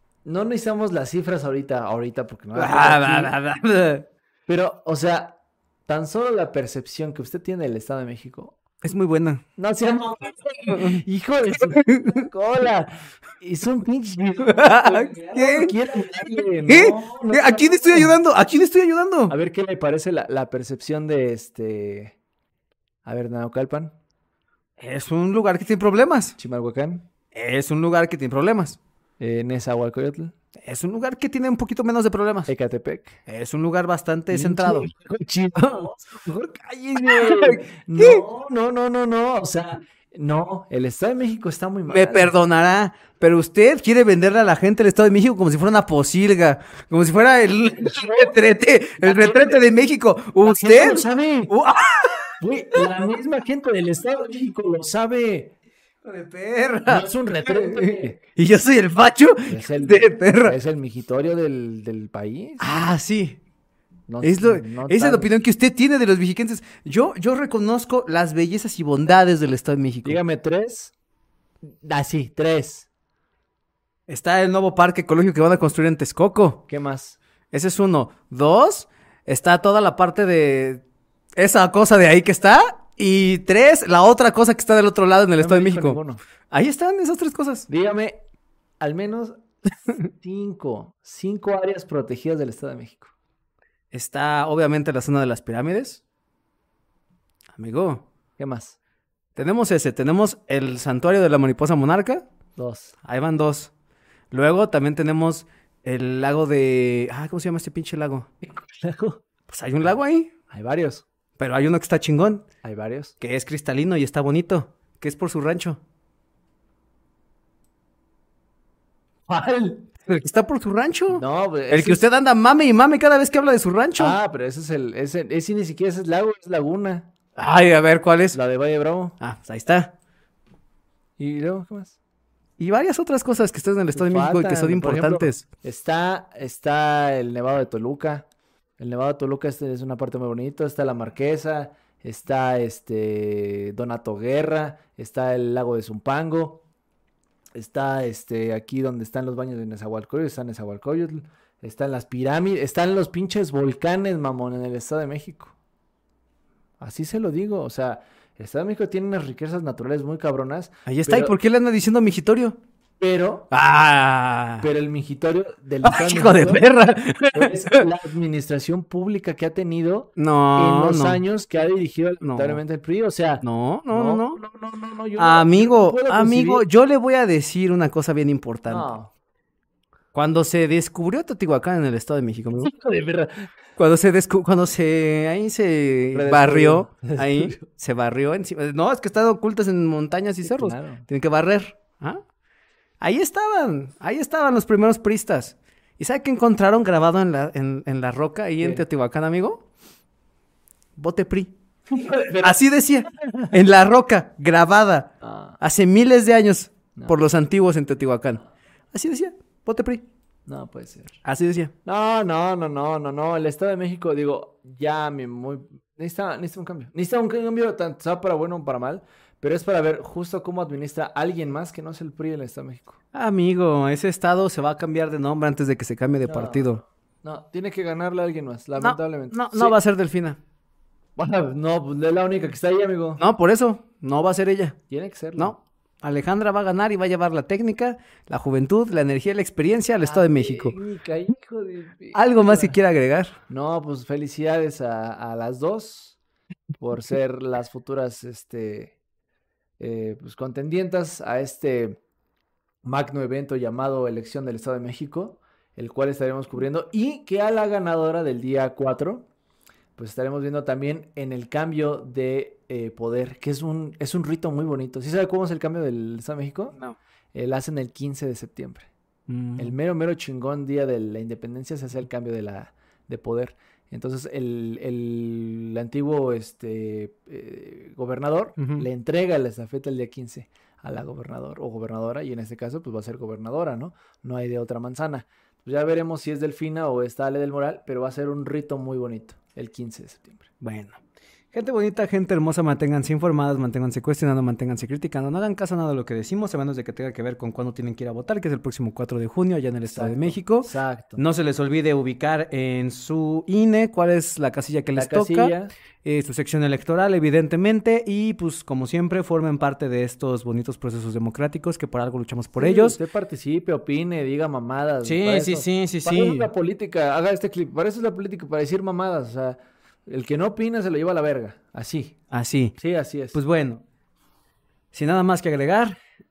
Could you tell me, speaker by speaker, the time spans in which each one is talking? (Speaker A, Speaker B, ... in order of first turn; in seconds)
Speaker A: 0.2-3.3, 4.5-8.5, 9.6-18.2, 19.3-22.1, 23.0-23.9, 26.4-27.0, 29.2-30.3, 32.5-33.2, 34.3-42.3, 47.9-48.3, 49.0-49.6, 50.4-51.5, 52.4-55.5, 56.9-58.2, 59.5-62.8, 64.1-65.3, 70.0-70.9, 71.6-72.8, 76.7-77.2, 85.4-86.2, 87.7-88.2, 88.8-93.1, 98.4-98.8, 102.5-102.9, 108.5-109.2, 110.5-111.0, 112.6-113.1, 119.3-119.8, 121.1-122.0, 124.0-127.1, 128.3-129.1, 131.2-131.9, 133.9-138.2, 138.8-146.6, 147.5-155.5, 156.8-161.3, 163.0-163.4, 164.6-166.7, 167.3-176.6, 178.7-179.1, 182.5-183.5, 186.1-187.6, 190.4-191.1, 201.9-202.6, 203.1-203.5, 205.2-205.6, 210.4-211.2, 211.8-223.0, 226.3-229.8, 231.2-233.2, 234.9-235.6, 240.0-242.8, 243.5-246.2, 246.8-248.9, 249.8-252.0, 252.8-259.2, 260.0-266.7, 267.3-268.9, 269.6-290.5, 299.9-301.2, 304.9-305.7, 312.6-322.1, 322.8-323.4
Speaker B: 2.5-4.0, 8.8-9.4, 11.7-12.3, 14.4-15.8, 16.6-19.3, 24.8-26.4, 27.3-28.8, 30.6-32.5, 33.3-34.9, 35.6-35.8, 37.0-38.2, 41.9-52.8, 56.0-60.5, 62.6-63.4, 64.2-70.2, 74.1-76.7, 77.5-80.8, 81.4-87.7, 93.9-96.0, 97.6-98.0, 99.3-102.3, 103.0-103.7, 104.3-108.3, 109.5-110.3, 111.4-112.5, 113.2-115.8, 120.1-124.2, 127.4-128.4, 129.2-129.9, 132.6-135.4, 160.8-162.6, 163.5-164.7, 165.8-167.8, 170.2-171.2, 172.2-172.6, 173.4-174.4, 175.2-178.9, 180.1-182.7, 183.8-192.2, 193.0-199.6, 201.0-201.5, 202.4-208.4, 208.9-210.0, 211.2-211.7, 223.1-226.8, 228.8-230.4, 233.2-234.8, 235.3-240.8, 242.1-243.3, 269.3-269.7, 278.6-278.9, 290.6-291.0, 291.5-313.0, 315.0-316.5, 322.3-322.8, 323.3-323.8, 324.9-325.9